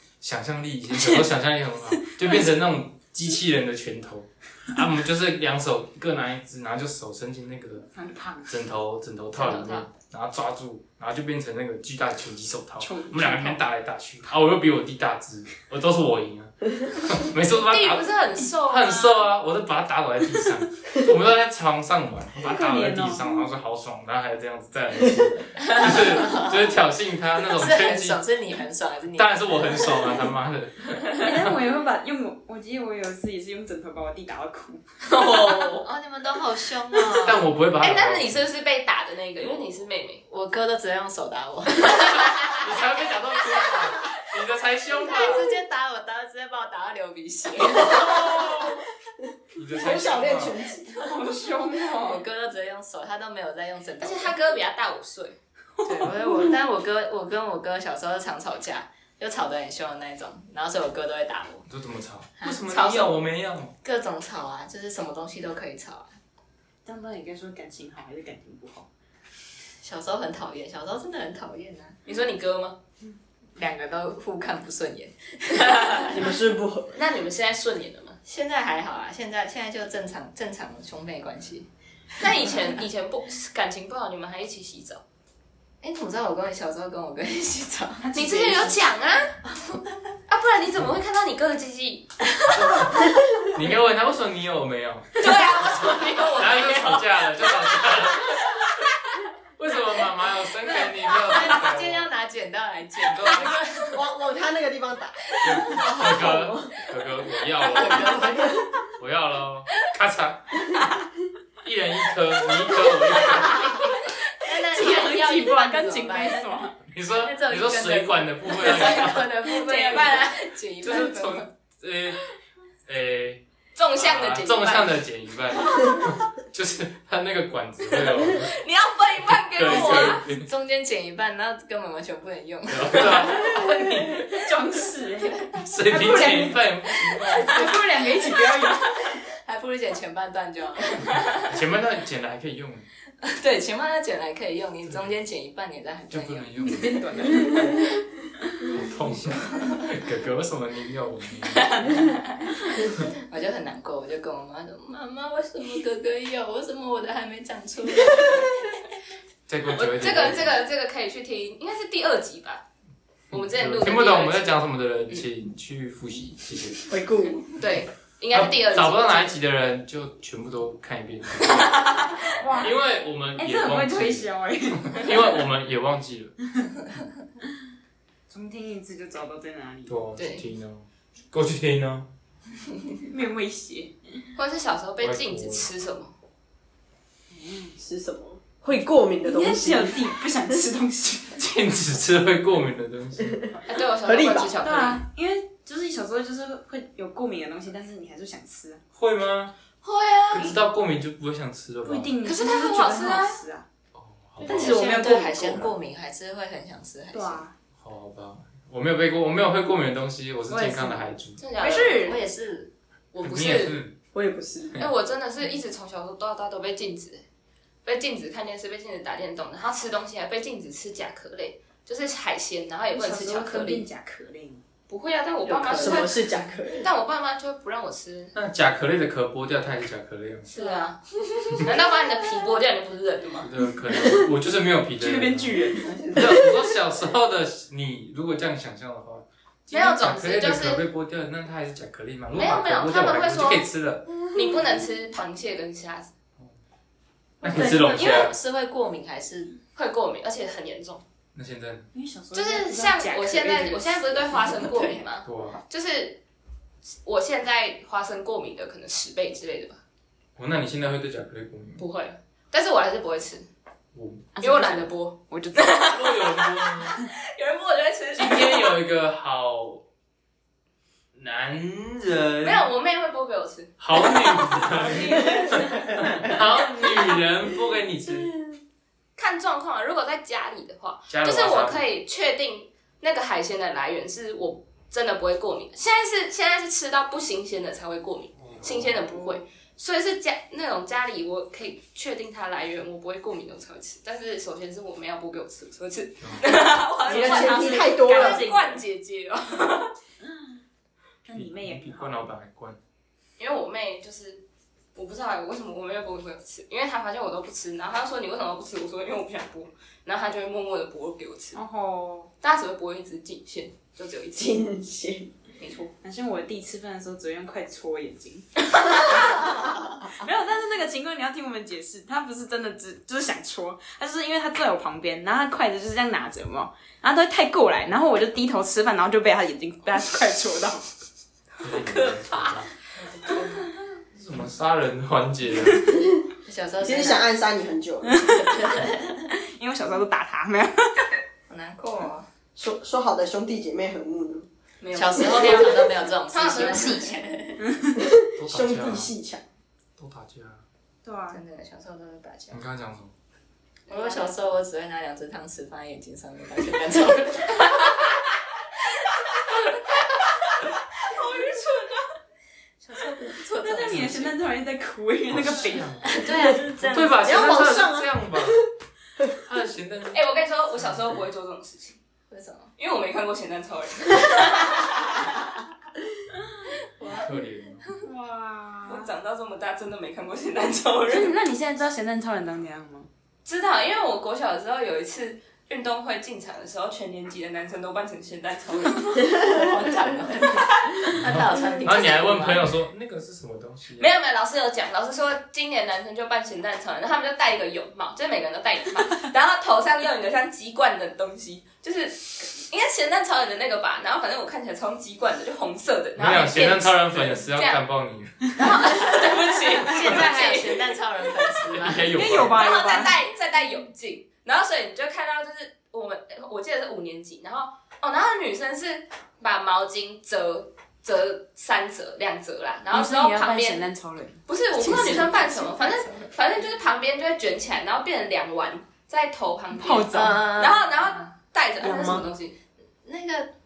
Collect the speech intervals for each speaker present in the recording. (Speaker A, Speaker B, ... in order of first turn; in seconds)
Speaker A: 0.2-7.9, 8.5-28.2, 29.1-31.5, 37.1-38.4, 42.5-45.5, 49.5-50.5, 61.7-63.7, 92.5-98.6, 99.6-102.1, 103.0-103.6, 105.4-108.3, 109.0-110.6, 111.6-113.8, 116.9-119.3, 120.8-122.2, 122.8-123.4, 123.9-128.5, 129.3-130.5, 132.7-134.3, 135.6-137.8, 141.4-142.9, 146.1-147.7, 148.6-152.0, 159.5-160.6, 163.3-166.9, 168.3-176.3, 179.9-182.1, 185.0-185.7, 191.4-193.4, 198.9-199.5, 200.3-202.1, 203.9-204.8, 207.8-211.4, 213.2-213.9, 228.3-230.5, 233.4-244.1, 247.4-248.4, 251.3-251.9, 255.2-255.6, 260.4-261.8, 263.9-264.3, 265.7-267.0, 268.1-269.8, 271.1-272.7, 273.8-278.4, 281.1-281.9, 288.4-289.0, 296.2-296.4, 301.3-302.8, 331.6-332.7, 334.1-335.9, 348.4-349.1, 350.0-350.6, 352.5-353.1, 363.8-364.3, 365.3-368.6, 369.3-370.2, 370.8-371.1, 377.1-377.9, 391.2-394.1, 406.2-408.4, 411.7-412.6
Speaker B: 1.0-1.2, 2.2-2.5, 7.9-8.6, 12.8-13.6, 22.4-23.4, 31.1-34.8, 50.9-52.2, 55.8-56.5, 66.8-68.9, 88.0-88.7, 114.7-116.8, 134.1-136.7, 137.2-139.0, 146.6-147.8, 172.4-172.8, 173.4-175.3, 178.3-180.0, 183.1-184.3, 187.3-187.8, 189.2-191.6, 194.6-198.8, 201.8-203.7, 204.4-205.7, 207.1-207.5, 210.5-212.2, 222.9-224.6, 230.6-230.9, 235.0-236.4, 247.5-248.2, 251.9-254.5, 264.4-265.8, 274.6-276.3, 297.1-298.8, 300.2-300.6, 301.2-302.3, 311.5-312.3, 316.0-330.9, 338.0-341.1, 347.6-348.0, 351.0-351.4, 363.6-365.9, 378.0-379.1, 381.1-383.1, 412.1-413.2, 422.9-424.4, 429.7-430.5
Speaker C: 9.3-9.9, 17.5-19.3, 35.0-35.9, 37.8-40.2, 54.0-55.4, 72.0-72.8, 76.9-78.2, 82.2-85.0, 88.1-89.4, 90.3-92.3, 95.2-98.4, 113.3-114.1, 118.7-120.5, 123.8-126.1, 128.0-130.2, 159.7-162.6, 163.3-165.2, 167.4-169.4, 171.4-172.2, 180.2-180.4, 184.3-186.1, 193.7-195.0, 199.8-200.6, 202.2-203.4, 211.4-212.2, 213.1-213.8, 214.8-217.2, 217.8-223.8, 224.9-228.3, 230.5-233.5, 239.7-240.8, 242.3-243.7, 244.3-246.1, 249.7-251.0, 252.3-256.2, 257.0-259.8, 261.8-263.5, 264.4-268.8, 272.4-275.8, 279.1-299.9, 303.4-311.6, 312.4-314.7, 315.6-315.9, 318.8-319.2, 331.7-332.7, 344.8-347.2, 353.9-354.4, 361.0-362.1, 370.1-372.0, 372.8-375.5, 378.9-381.3, 383.4-391.2, 394.0-407.8, 408.5-411.5, 412.5-423.9, 424.5-432.6
Speaker D: 25.6-26.7, 27.4-30.2, 35.6-37.4, 40.3-42.8, 45.0-48.5, 51.9-54.4, 55.8-61.6, 62.4-63.2, 63.8-66.1, 69.8-72.0, 73.5-76.2, 78.2-81.7, 85.8-88.7, 89.7-89.9, 100.8-104.0, 105.6-106.4, 107.6-108.8, 113.3-113.8, 114.4-116.7, 117.2-121.5, 129.7-134.2, 135.2-135.6, 139.3-141.2, 143.2-146.6, 147.4-147.7, 152.7-158.9, 204.4-207.4, 211.9-212.7, 225.5-225.9, 247.4-249.6, 254.6-255.0, 333.1-333.6, 336.4-337.3, 338.6-339.1, 341.5-342.3, 344.9-347.6, 351.3-352.6, 353.9-358.1, 362.8-364.3, 366.0-367.5, 372.3-372.7, 377.0-377.9, 389.3-392.7, 408.6-412.1, 424.7-426.3, 430.1-431.2, 433.0-433.5
Speaker E: 47.8-48.8, 49.7-51.1, 76.1-77.0, 103.9-106.9, 108.2-108.5, 166.9-167.4, 187.8-190.1, 194.0-194.5, 214.1-214.8, 225.5-226.9, 297.1-298.4, 314.4-315.3, 336.8-338.6, 342.5-344.5, 347.9-349.4, 367.2-368.7, 431.8-432.3